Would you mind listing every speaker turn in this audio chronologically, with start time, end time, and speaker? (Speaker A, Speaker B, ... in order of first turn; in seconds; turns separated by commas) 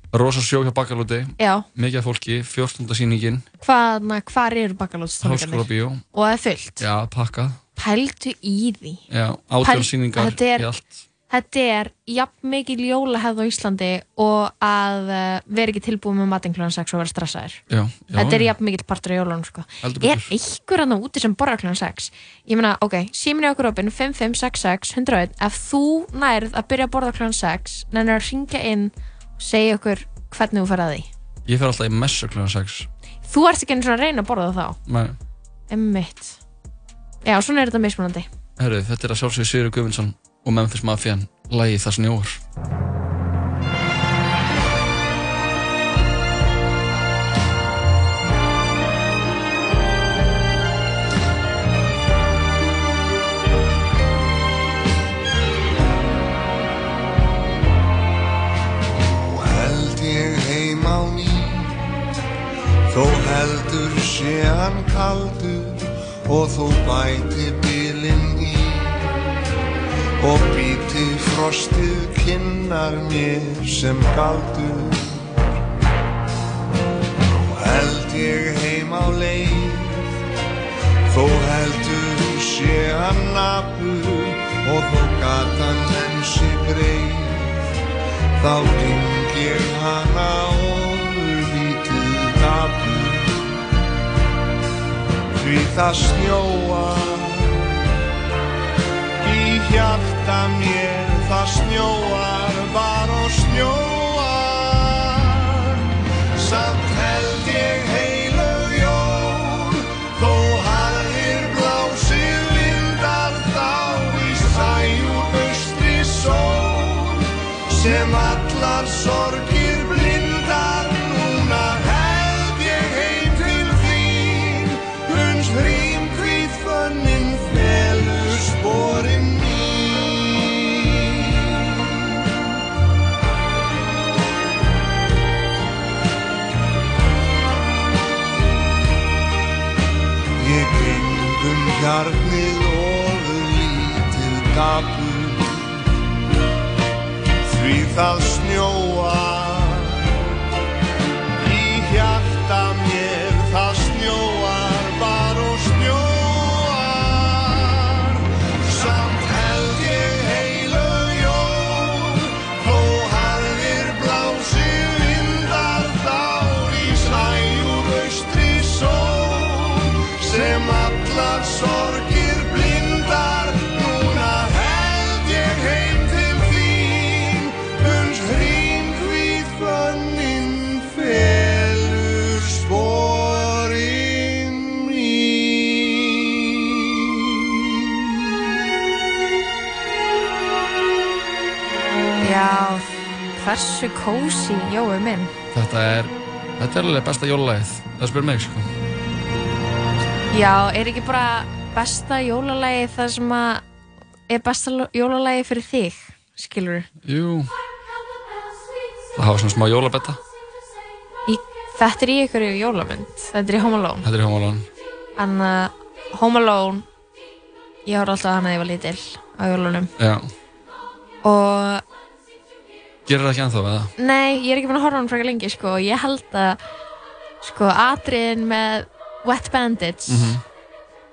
Speaker A: 0.1-3.4, Speaker B: 1.4-1.6, Speaker B: 3.6-6.8, Speaker A: 5.2-6.0, Speaker A: 6.8-7.6, Speaker B: 7.8-9.0, Speaker A: 9.1-11.0, Speaker B: 9.6-10.7, Speaker B: 11.3-17.6, Speaker A: 17.7-18.5, Speaker B: 18.1-31.1, Speaker A: 19.8-20.3, Speaker A: 31.4-32.9, Speaker B: 33.2-34.8, Speaker A: 34.9-35.2, Speaker B: 35.7-36.4, Speaker B: 37.2-38.3, Speaker A: 38.6-42.4, Speaker C: 59.0-61.9, Speaker C: 62.9-69.1, Speaker C: 70.2-75.3, Speaker C: 77.3-80.1, Speaker C: 81.1-87.6, Speaker C: 88.4-93.5, Speaker C: 95.3-97.8, Speaker C: 99.2-105.8, Speaker C: 106.3-132.3, Speaker C: 140.4-145.8, Speaker C: 147.4-150.2, Speaker C: 151.4-187.6, Speaker B: 192.2-195.3, Speaker A: 195.5-198.7, Speaker B: 200.3-203.6, Speaker B: 204.3-206.9, Speaker A: 207.0-207.5, Speaker A: 209.1-210.2, Speaker B: 211.3-214.1, Speaker A: 214.0-214.7, Speaker B: 215.2-216.8, Speaker B: 217.8-219.9, Speaker A: 220.0-220.3, Speaker B: 221.2-221.8, Speaker A: 223.1-223.9, Speaker B: 224.0-226.6, Speaker B: 227.4-230.3, Speaker A: 230.1-230.4